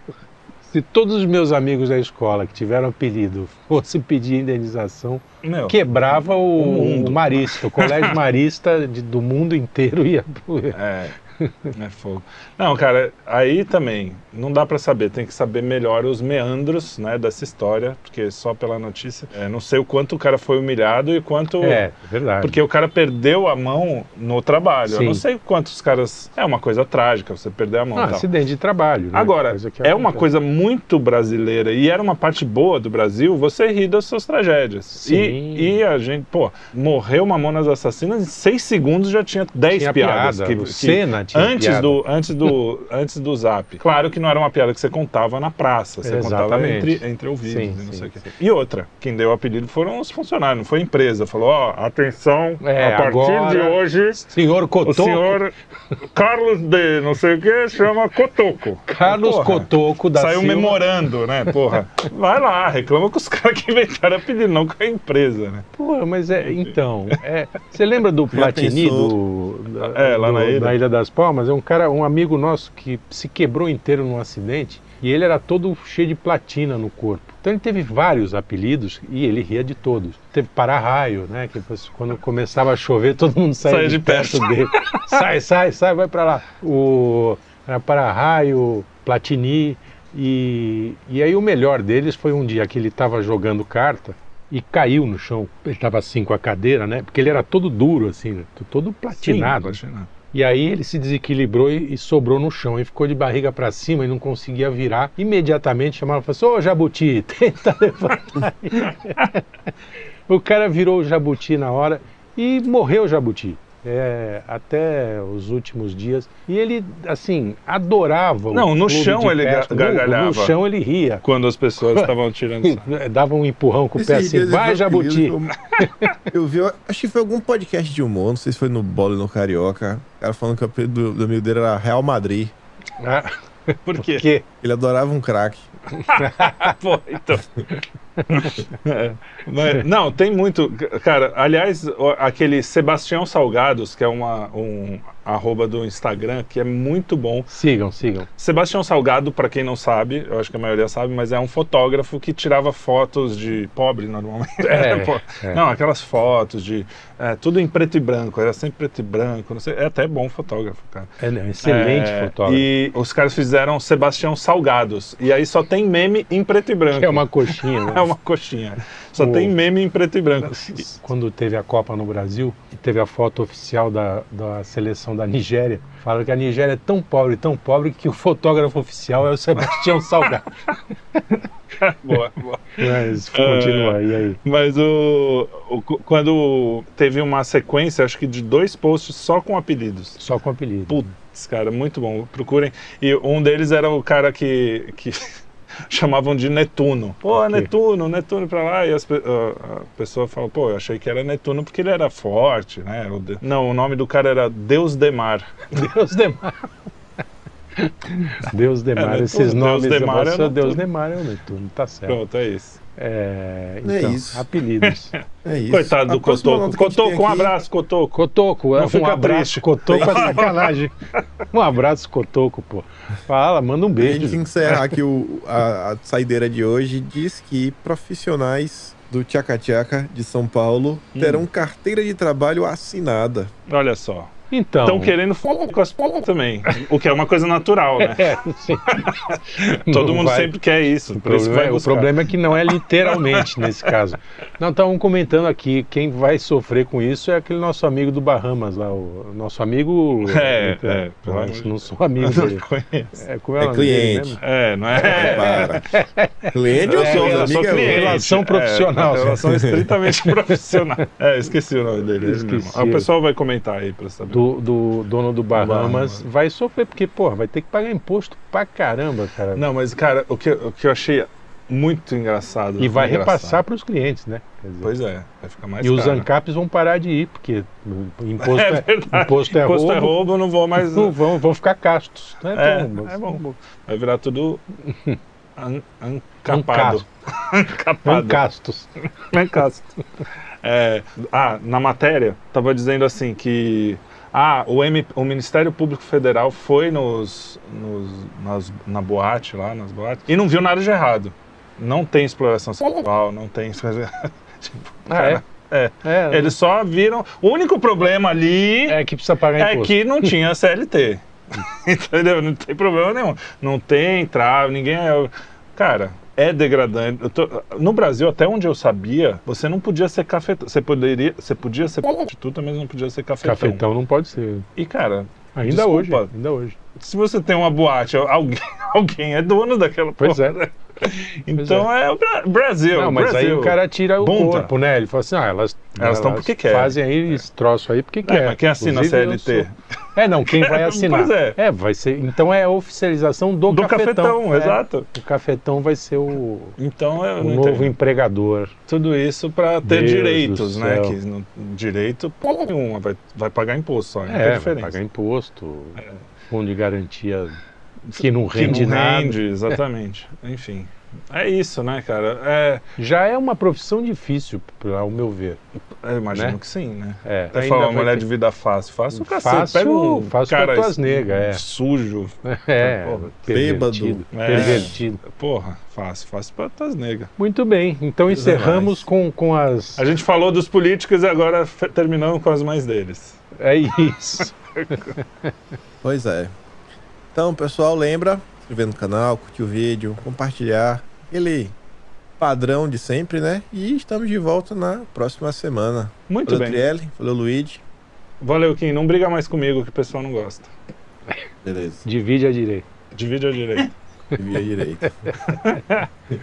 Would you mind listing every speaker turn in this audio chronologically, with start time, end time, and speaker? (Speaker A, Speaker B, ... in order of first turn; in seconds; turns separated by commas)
Speaker A: 0.6-10.8, Speaker B: 5.4-5.8, Speaker B: 6.5-8.2, Speaker B: 10.7-11.2, Speaker A: 11.3-11.7, Speaker B: 11.7-21.8, Speaker A: 21.6-22.6, Speaker B: 22.4-28.3, Speaker A: 24.9-25.2, Speaker A: 27.9-30.2, Speaker B: 29.1-54.3, Speaker A: 35.0-35.8, Speaker A: 39.7-42.0, Speaker A: 46.0-48.3, Speaker A: 52.6-55.4, Speaker B: 54.8-55.5, Speaker B: 56.1-65.7, Speaker A: 58.9-60.8, Speaker A: 65.8-99.8, Speaker B: 66.4-66.7, Speaker C: 68.3-69.1, Speaker B: 69.8-70.8, Speaker B: 83.6-85.2, Speaker B: 99.1-100.1, Speaker A: 100.3-109.4, Speaker A: 110.3-121.2, Speaker B: 118.5-120.5, Speaker B: 121.2-122.9, Speaker A: 121.8-122.1, Speaker A: 122.6-126.1, Speaker C: 123.9-125.6, Speaker C: 126.3-132.5, Speaker A: 133.0-134.4, Speaker B: 133.9-134.2, Speaker C: 134.6-135.7, Speaker A: 136.0-136.7, Speaker B: 136.0-137.8, Speaker A: 138.2-138.7, Speaker B: 138.3-147.5, Speaker A: 147.5-148.3, Speaker B: 148.4-161.1, Speaker A: 154.6-155.6, Speaker A: 161.2-162.7, Speaker B: 161.6-170.9, Speaker A: 166.9-168.1, Speaker A: 169.2-169.5, Speaker A: 170.4-180.5, Speaker B: 179.7-180.3, Speaker B: 181.8-190.2, Speaker A: 182.8-184.4, Speaker A: 190.2-191.1, Speaker B: 190.9-195.3, Speaker B: 195.9-205.7, Speaker A: 197.3-197.7, Speaker A: 205.7-206.7, Speaker A: 207.8-212.2, Speaker B: 209.0-210.8, Speaker B: 212.1-212.8, Speaker A: 212.9-215.2, Speaker C: 213.8-214.4, Speaker B: 214.8-218.2, Speaker C: 215.4-217.5, Speaker A: 218.1-220.9, Speaker B: 218.7-220.7, Speaker C: 219.9-220.5, Speaker A: 221.5-224.9, Speaker C: 224.0-233.5, Speaker B: 231.1-231.4, Speaker B: 233.7-234.3, Speaker A: 234.5-235.2, Speaker B: 234.8-243.9, Speaker A: 238.0-240.5, Speaker A: 241.1-252.6, Speaker B: 250.2-253.2, Speaker A: 253.2-254.4, Speaker C: 253.6-254.4, Speaker B: 254.4-255.8, Speaker C: 254.9-255.8, Speaker A: 255.0-261.0, Speaker C: 256.5-258.2, Speaker B: 256.8-264.4, Speaker A: 262.2-263.1, Speaker A: 264.3-269.6, Speaker B: 265.5-266.2, Speaker B: 269.5-273.6, Speaker A: 272.8-274.9, Speaker B: 274.8-276.3, Speaker A: 275.8-280.2, Speaker B: 278.4-281.1, Speaker A: 280.8-283.5, Speaker B: 282.5-284.6, Speaker A: 284.8-285.2, Speaker B: 285.6-288.4, Speaker A: 286.5-287.0, Speaker A: 288.0-288.9, Speaker B: 289.2-289.9, Speaker B: 290.6-309.0, Speaker A: 305.1-305.4, Speaker A: 306.0-306.5, Speaker A: 308.9-310.3, Speaker B: 309.6-323.8, Speaker A: 323.4-324.7, Speaker B: 324.8-326.3, Speaker A: 325.5-326.8, Speaker B: 326.9-334.7, Speaker A: 330.2-330.6, Speaker A: 331.6-331.9, Speaker A: 332.9-346.8, Speaker B: 336.0-337.4, Speaker B: 338.2-339.7, Speaker B: 340.4-341.6, Speaker B: 343.7-345.1, Speaker B: 346.8-347.9, Speaker A: 347.4-348.7, Speaker B: 348.9-355.0, Speaker A: 349.8-351.2, Speaker A: 354.3-357.6, Speaker B: 358.1-362.8, Speaker A: 358.1-359.8, Speaker A: 363.0-365.6, Speaker B: 366.0-373.3, Speaker A: 366.3-366.6, Speaker A: 367.2-368.2, Speaker A: 369.1-371.6, Speaker A: 372.4-375.2, Speaker C: 373.5-374.9, Speaker B: 374.3-377.3, Speaker A: 377.4-380.1, Speaker C: 378.3-379.1, Speaker B: 380.0-385.1, Speaker A: 383.6-385.1, Speaker C: 386.0-386.5, Speaker C: 387.3-391.7, Speaker C: 392.4-397.8, Speaker B: 396.3-396.8, Speaker B: 398.4-400.7, Speaker C: 401.6-402.0, Speaker A: 402.0-402.9, Speaker B: 403.1-403.9, Speaker C: 404.3-405.3, Speaker A: 405.3-405.8, Speaker B: 405.4-406.1